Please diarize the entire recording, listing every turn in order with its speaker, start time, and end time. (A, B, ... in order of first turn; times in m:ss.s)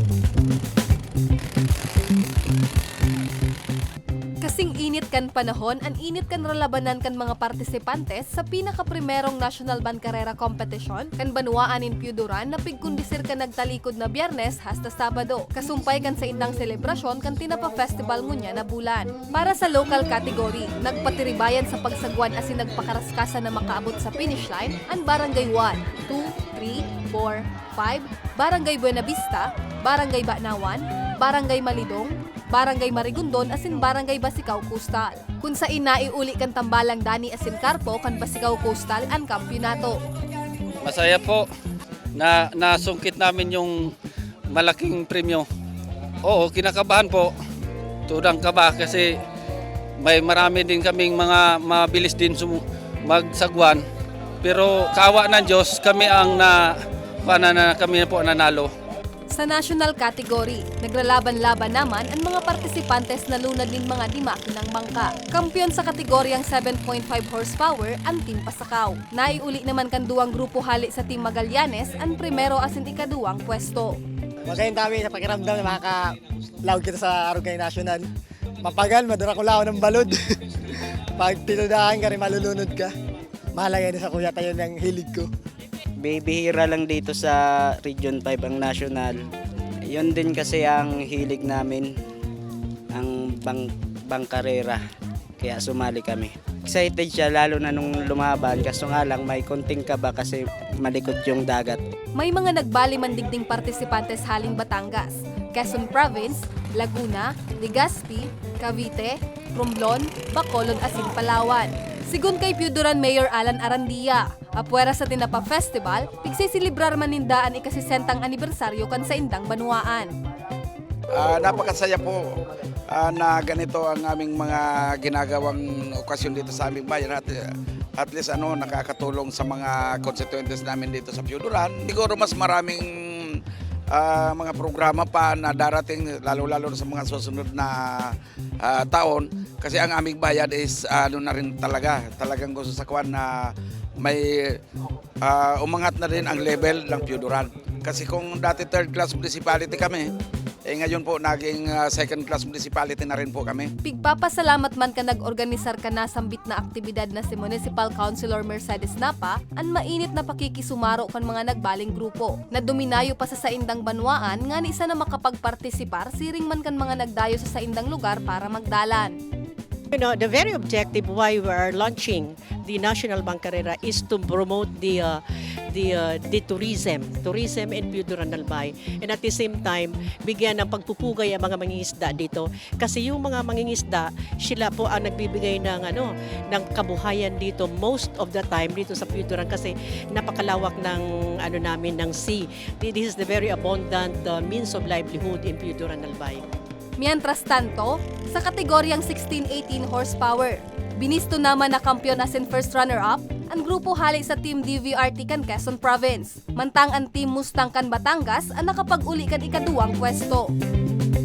0:04.4-0:40.0 A
0:40.8-0:41.5 B
0:42.1-0:43.9 B
0:44.5-0:45.5 B
0:46.2-0:47.3 B
0:48.1-0:49.2 B
0:50.0-0:53.8 B
0:54.4-0:58.7 B
0:59.3-1:14.0 A
1:14.5-1:18.0 C
1:18.6-1:20.1 C
1:21.2-1:22.9 C
1:23.6-1:25.3 C
1:26.0-1:29.2 D
1:29.9-1:31.9 D
1:32.9-1:34.8 D
1:35.4-1:41.8 D
1:42.1-2:00.1 A
2:01.1-2:02.4 E
2:02.9-2:24.6 E
2:25.2-2:30.1 E
2:30.6-2:33.7 E
2:33.8-2:49.1 A
2:49.9-3:16.4 F
3:17.0-3:30.5 A